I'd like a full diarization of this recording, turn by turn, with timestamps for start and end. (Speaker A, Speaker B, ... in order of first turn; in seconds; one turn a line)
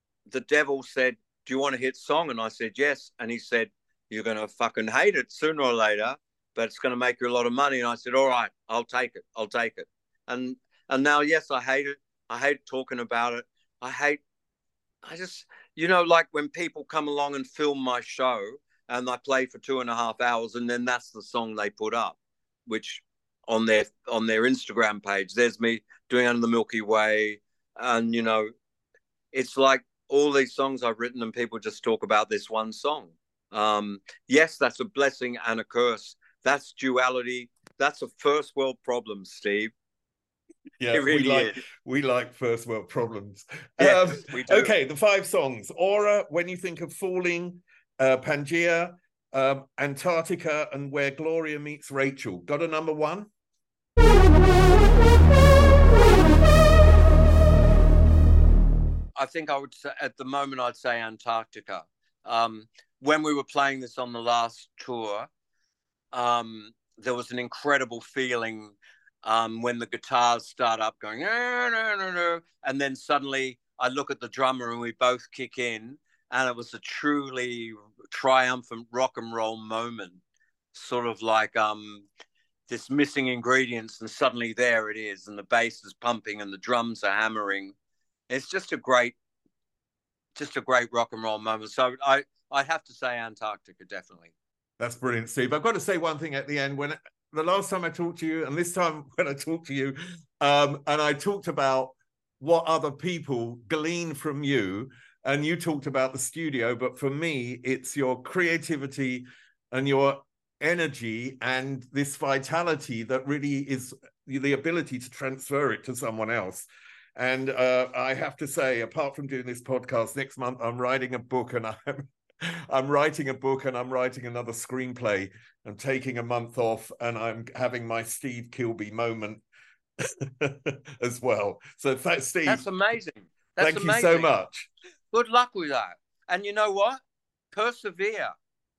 Speaker A: 0.3-14.2
Speaker A: 15.0-28.5
Speaker A: 29.3-39.7
Speaker B: 40.8-53.3
Speaker A: 40.9-41.6
Speaker A: 43.8-44.7
Speaker A: 59.2-65.3
Speaker A: 66.1-80.2
Speaker A: 80.7-82.1
Speaker A: 82.7-87.8
Speaker A: 88.3-89.2
Speaker A: 90.4-94.3
Speaker B: 94.8-116.7
Speaker B: 117.2-129.4
Speaker B: 130.0-132.7
Speaker A: 132.5-134.3
Speaker B: 133.6-134.7
Speaker A: 135.1-137.0
Speaker A: 137.5-138.3